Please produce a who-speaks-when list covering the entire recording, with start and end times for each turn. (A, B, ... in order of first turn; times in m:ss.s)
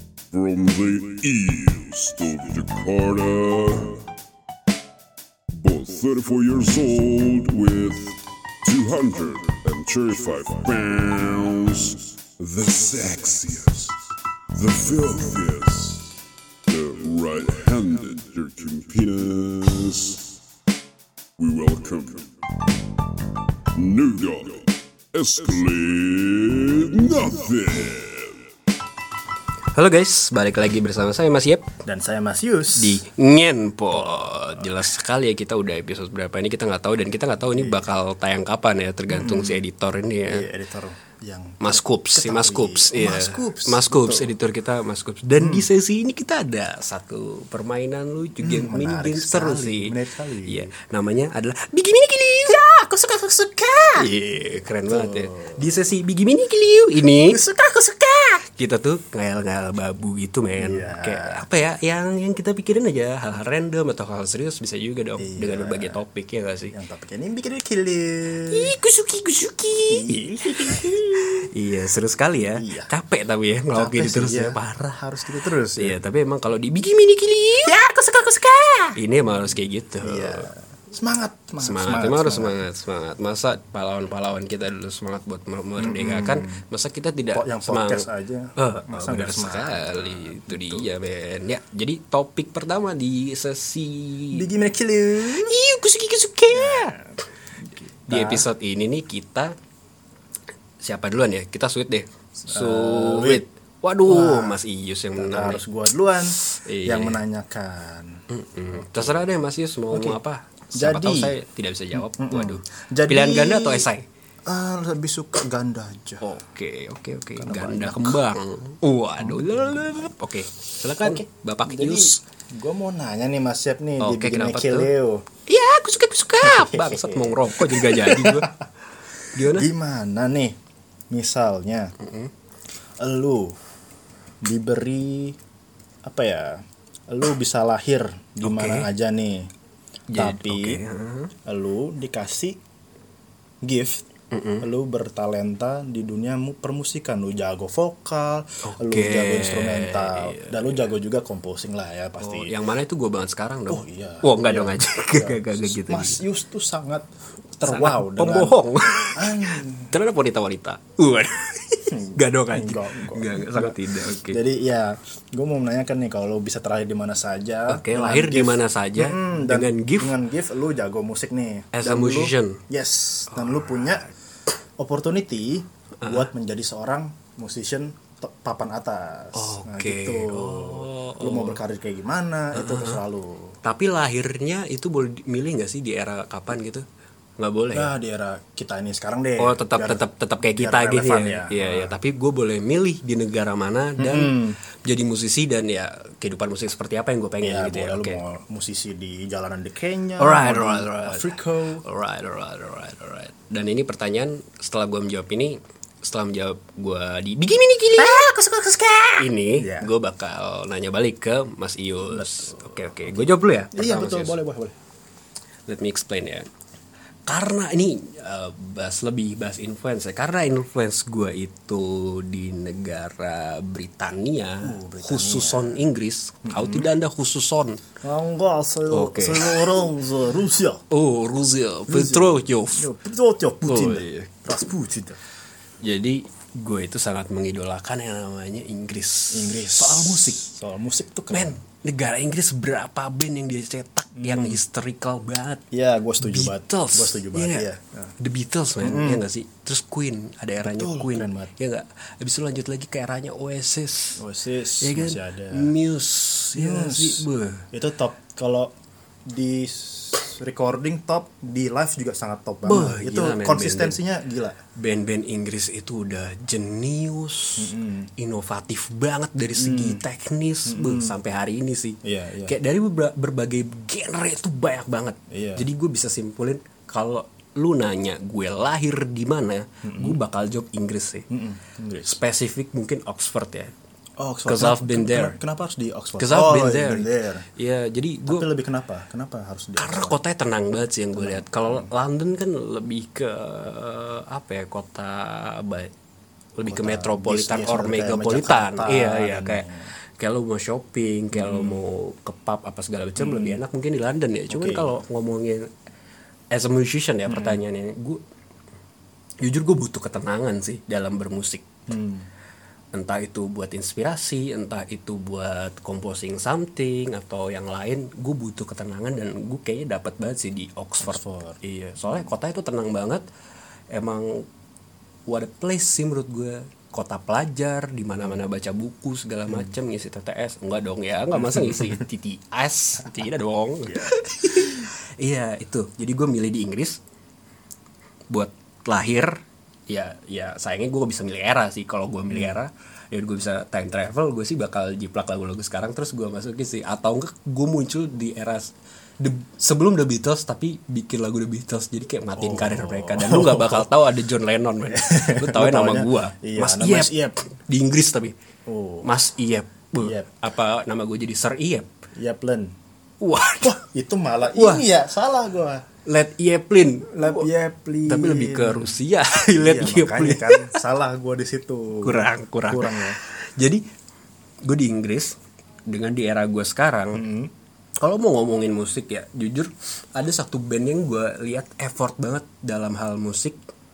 0:00.3-0:04.0 A
0:05.5-0:13.9 A
0:14.5-0:16.1 A
0:16.7-0:20.3 A
0:21.4-0:22.3 A
0:23.7-0:28.4 A
0:29.7-0:31.7 B
0:31.8-0:33.0 C
0:32.8-0:40.5 B
0:33.9-0:34.9 C
0:37.4-0:37.9 C
0:39.1-0:39.6 C
0:40.2-0:44.3 C
0:41.6-0:52.8 B
0:45.4-0:45.7 C
0:48.4-0:50.7 C
0:52.5-0:54.1 C
0:53.9-0:57.4 B
0:54.9-0:55.6 C
0:57.2-0:58.4 C
0:58.4-1:06.7 B
1:00.6-1:01.4 C
1:05.2-1:06.0 C
1:06.7-1:08.7 C
1:08.5-1:15.0 B
1:09.9-1:11.5 C
1:12.4-1:12.9 C
1:13.7-1:16.0 C
1:15.8-1:17.8 B
1:17.6-1:19.0 C
1:19.0-1:20.5 B
1:20.0-1:22.6 C
1:21.6-1:34.4 B
1:25.8-1:26.6 C
1:27.3-1:30.9 C
1:34.3-1:35.6 C
1:35.3-1:37.0 B
1:36.5-1:37.1 C
1:37.6-1:38.5 C
1:38.1-1:39.5 B
1:40.8-1:45.6 B
1:42.4-1:43.4 C
1:44.0-1:44.6 C
1:45.1-1:48.2 C
1:46.4-1:47.2 B
1:48.3-1:54.0 B
1:48.7-1:49.3 C
1:49.9-1:50.2 C
1:50.7-1:51.4 C
1:51.9-1:53.9 C
1:54.4-1:56.2 C
1:56.2-2:02.2 B
1:57.4-1:58.2 C
1:59.2-2:00.1 C
2:01.0-2:05.3 C
2:04.0-2:04.9 B
2:05.5-2:08.6 B
2:06.4-2:08.6 C
2:09.3-2:09.7 B
2:09.3-2:10.6 C
2:11.1-2:11.9 C
2:12.0-2:12.3 B
2:13.0-2:13.6 C
2:14.4-2:15.4 C
2:16.0-2:19.5 C
2:18.4-2:18.9 B
2:20.1-2:21.3 B
2:20.1-2:20.8 C
2:21.4-2:22.6 C
2:23.6-2:24.0 C
2:24.3-2:24.6 B
2:24.6-2:32.5 C
2:28.6-2:30.8 B
2:32.2-2:36.2 B
2:33.7-2:37.1 C
2:37.6-2:39.9 C
2:37.6-2:44.4 B
2:41.9-2:54.0 C
2:47.7-2:50.1 B
2:51.7-2:52.6 B
2:53.3-2:54.1 B
2:54.8-3:03.6 C
2:56.0-2:56.3 B
2:59.3-3:01.6 B
3:02.5-3:03.0 B
3:03.6-3:06.8 B
3:07.4-3:07.9 B
3:07.7-3:12.0 C
3:09.4-3:18.2 B
3:14.0-3:14.6 C
3:17.4-3:21.8 C
3:20.2-3:28.3 B
3:28.0-3:29.9 C
3:29.2-3:34.4 B
3:32.1-3:34.7 C
3:35.7-3:36.4 B
3:37.3-3:47.8 B
3:44.6-3:45.8 C
3:46.4-3:46.9 C
3:48.0-3:50.8 C
3:48.9-3:49.7 B
3:50.9-3:52.9 B
3:51.9-3:55.2 C
3:53.6-3:54.3 B
3:55.8-4:00.4 B
3:59.3-4:01.6 C
4:01.3-4:05.6 B
4:04.2-4:04.6 C
4:05.7-4:08.1 C
4:06.2-4:14.2 B
4:08.8-4:09.2 C
4:10.6-4:11.5 C
4:14.2-4:15.7 C
4:14.8-4:17.7 B
4:16.5-4:18.7 C
4:19.2-4:24.6 C
4:22.6-4:24.0 B
4:24.8-4:41.3 B
4:27.6-4:28.1 C
4:29.6-4:30.0 C
4:30.6-4:31.2 C
4:32.0-4:32.5 C
4:35.3-4:35.6 C
4:39.8-4:40.2 C
4:41.3-4:42.2 C
4:42.0-4:43.7 B
4:44.2-4:47.4 C
4:44.4-4:45.4 B
4:46.2-4:48.5 B
4:48.3-4:50.2 C
4:49.8-4:55.9 B
4:51.1-4:51.9 C
4:56.6-4:59.7 B
4:56.6-4:59.9 C
5:00.2-5:05.7 B
5:01.3-5:01.8 C
5:03.2-5:03.6 C
5:04.5-5:05.0 C
5:06.5-5:08.2 B
5:07.2-5:07.6 C
5:09.4-5:11.7 B
5:11.9-5:12.3 C
5:12.9-5:23.2 B
5:21.0-5:21.6 C
5:23.9-5:24.5 B
5:25.3-5:37.0 B
5:31.3-5:32.0 C
5:33.9-5:34.8 C
5:38.3-5:58.3 B
5:42.3-5:42.6 C
5:52.4-5:53.9 C
5:54.9-5:57.4 C
5:58.7-5:59.1 C
5:59.0-6:01.9 B
6:00.0-6:00.3 C
6:02.1-6:02.7 C
6:03.2-6:03.8 B
6:03.6-6:05.8 C
6:04.5-6:04.8 B
6:06.0-6:07.5 B
6:07.1-6:09.0 C
6:08.1-6:10.8 B
6:09.5-6:13.2 C
6:12.0-6:13.8 B
6:14.6-6:17.2 B
6:17.1-6:17.5 C
6:18.0-6:23.6 B